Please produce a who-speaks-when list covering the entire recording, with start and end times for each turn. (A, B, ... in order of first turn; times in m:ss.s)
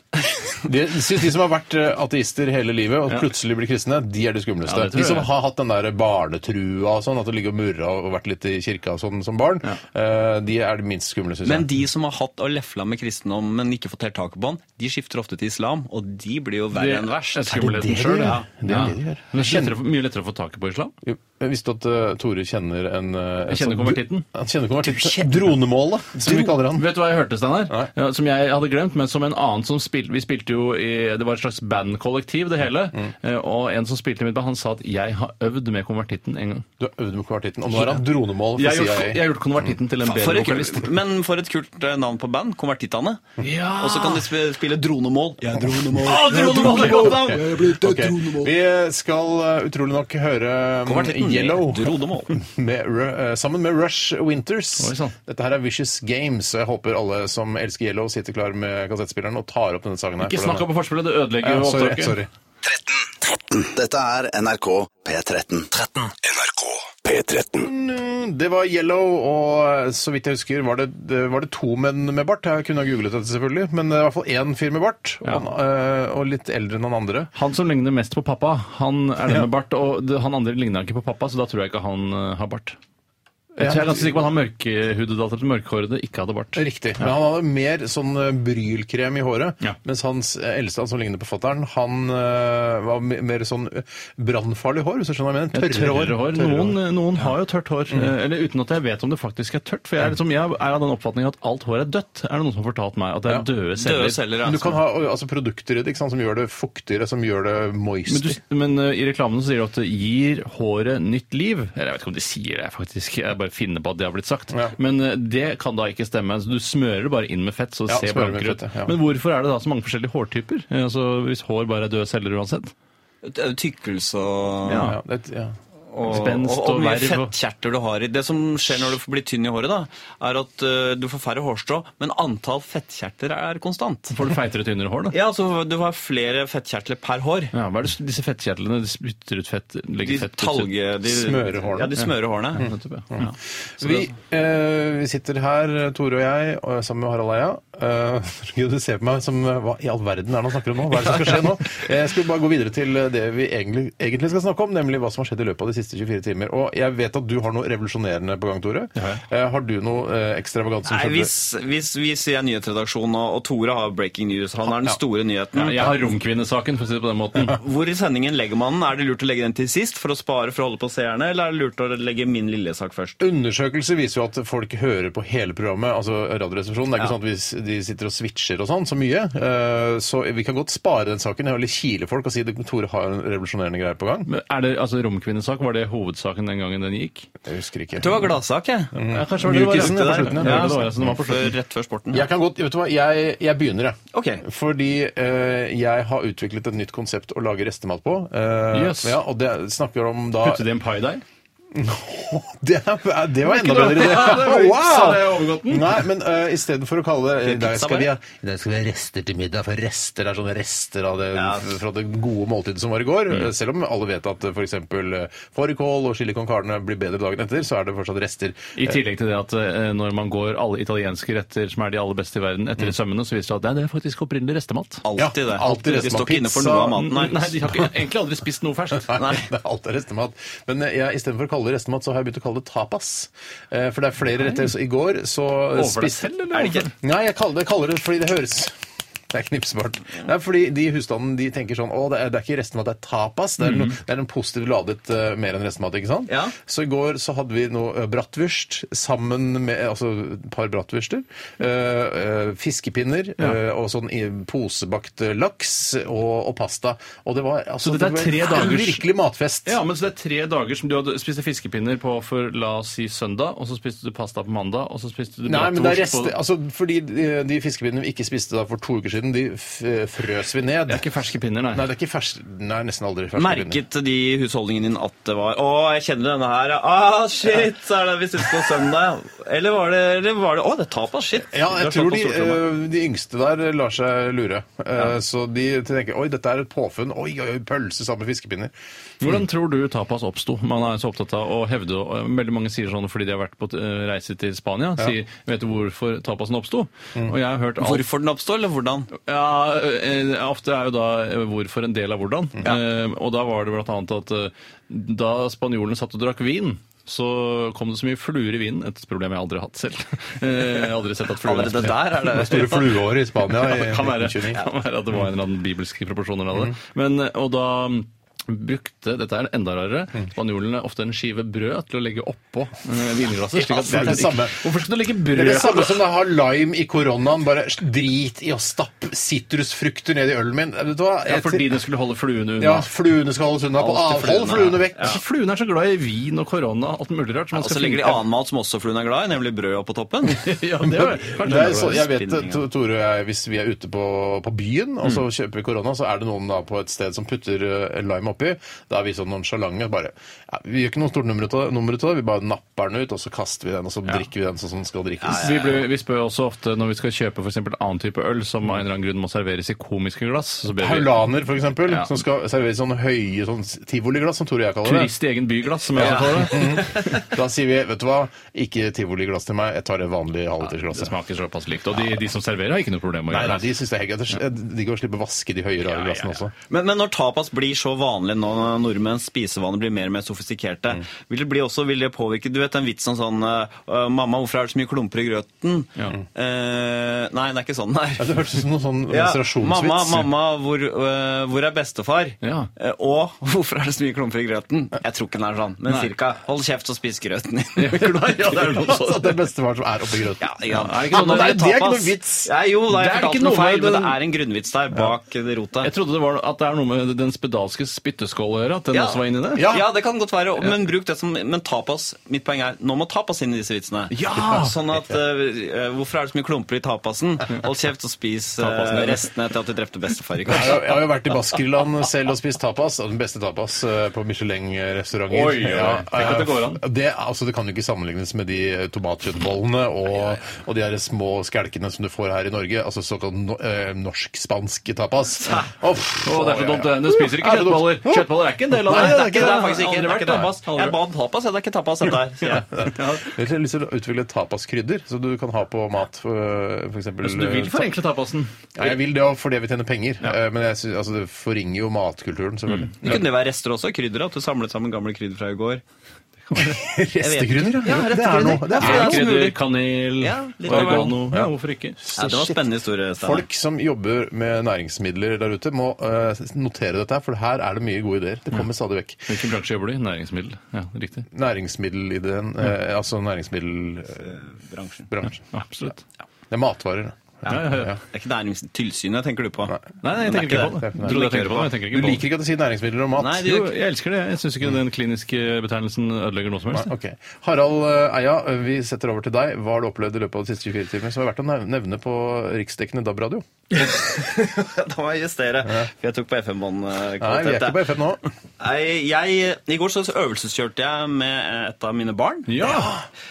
0:00.6-0:11.7 A
0:04.6-0:05.3 B
0:11.4-0:17.5 C
0:16.7-0:20.9 B
0:17.5-0:19.7 A
0:21.0-0:26.9 A
0:23.5-0:24.2 B
0:24.9-0:25.4 C
0:26.3-0:36.6 B
0:36.8-0:39.2 A
0:37.7-0:41.0 B
0:40.0-0:48.5 C
0:43.4-0:44.3 B
0:45.6-1:00.7 A
0:45.9-0:47.7 B
0:50.9-0:52.4 C
0:54.8-0:55.1 B
1:00.2-1:02.2 B
1:01.4-1:02.3 A
1:02.6-1:07.7 D
1:07.6-1:17.3 A
1:17.4-1:22.8 B
1:23.6-1:24.2 A
1:23.6-1:27.1 B
1:26.6-1:37.3 A
1:35.5-1:44.2 B
1:43.8-1:44.8 C
1:44.4-1:48.4 A
1:48.1-2:02.7 B
1:57.9-1:59.0 A
2:03.2-2:04.9 C
2:04.7-2:05.0 B
2:04.7-2:05.6 A
2:05.9-2:14.2 C
2:06.0-2:07.3 B
2:14.1-2:15.2 B
2:15.1-2:17.5 C
2:17.5-2:20.7 B
2:20.0-2:22.7 C
2:21.1-2:21.9 A
2:22.0-2:24.1 B
2:22.6-2:41.3 A
2:39.0-2:39.2 B
2:40.8-2:45.9 C
2:45.6-2:47.6 B
2:47.5-2:53.2 C
2:53.2-3:04.3 A
3:04.3-3:07.3 B
3:07.4-3:08.2 A
3:08.0-3:09.0 C
3:08.9-3:11.2 A
3:09.0-3:11.5 B
3:09.6-3:12.3 C
3:12.1-3:20.6 A
3:14.1-3:14.4 C
3:18.7-3:19.2 B
3:20.4-3:21.2 B
3:21.7-3:39.0 A
3:23.5-3:26.0 B
3:27.4-3:28.1 C
3:31.3-3:31.7 C
3:38.8-3:45.0 B
3:45.0-3:47.5 C
3:45.2-3:47.0 A
3:46.9-3:49.3 B
3:49.1-3:56.3 A
3:54.4-3:54.7 B
3:55.7-3:56.9 B
3:56.5-3:56.9 C
3:57.0-3:58.8 A
3:59.3-4:19.8 A
4:03.6-4:04.0 B
4:06.3-4:06.6 C
4:17.8-4:19.0 B
4:19.7-4:26.3 B
4:25.5-4:31.0 A
4:30.9-4:31.9 B
4:31.7-4:33.8 A
4:33.4-4:42.6 C
4:41.4-4:48.7 A
4:49.2-4:58.1 B
4:57.8-4:59.1 C
4:59.1-5:12.2 B
5:11.4-5:12.8 C
5:12.1-5:14.6 A
5:13.4-5:26.0 B
5:23.5-5:24.6 A
5:25.3-5:31.7 A
5:31.3-5:32.9 B
5:32.6-5:35.2 A
5:33.8-5:35.2 C
5:34.0-5:38.2 B
5:37.5-5:40.4 C
5:40.3-5:42.1 B
5:40.8-5:55.8 A
5:41.8-5:42.7 C
5:55.2-5:55.7 C
5:55.3-6:01.2 B
6:00.8-6:05.1 A
6:01.9-6:02.1 B
6:04.8-6:07.2 B
6:05.9-6:11.1 A
6:06.0-6:07.2 C
6:10.7-6:13.7 B
6:13.3-6:16.5 A
6:16.7-6:28.4 C
6:28.2-6:30.3 A
6:29.1-6:38.1 C
6:32.4-6:32.7 B
6:37.8-6:39.4 B
6:38.0-6:40.4 A
6:40.4-6:45.9 C
6:40.7-6:41.7 B
6:41.1-6:42.5 A
6:42.9-6:44.2 B
6:45.8-6:49.8 B
6:48.9-7:00.8 C
6:49.6-6:49.9 A
6:54.1-6:54.8 B
6:58.6-6:59.3 B
7:00.5-7:19.6 A
7:05.3-7:06.8 B
7:16.2-7:21.0 B
7:18.9-7:22.7 C
7:22.5-7:23.3 B
7:22.8-7:27.9 A
7:27.2-7:29.0 B
7:28.8-7:33.3 A
7:32.7-7:33.2 B
7:33.0-7:35.8 C
7:36.5-7:36.8 B
7:36.5-7:39.3 A
7:37.2-7:39.6 C
7:38.7-7:42.0 B
7:40.2-7:41.2 C
7:40.7-7:49.4 A
7:42.2-7:43.5 C
7:49.3-7:51.3 B
7:51.3-7:54.4 A
7:54.2-7:55.1 C
7:55.1-7:55.4 A
7:55.4-7:56.0 B
7:56.5-7:58.0 A
7:57.4-8:01.7 C
7:57.5-7:58.0 B
8:00.0-8:02.2 B
8:00.5-8:03.6 A
8:03.2-8:03.7 C
8:03.3-8:06.9 B
8:06.7-8:13.4 A
8:13.7-8:17.9 C
8:17.2-8:18.2 A
8:18.6-8:22.5 C
8:22.5-8:23.0 B
8:22.6-8:23.0 A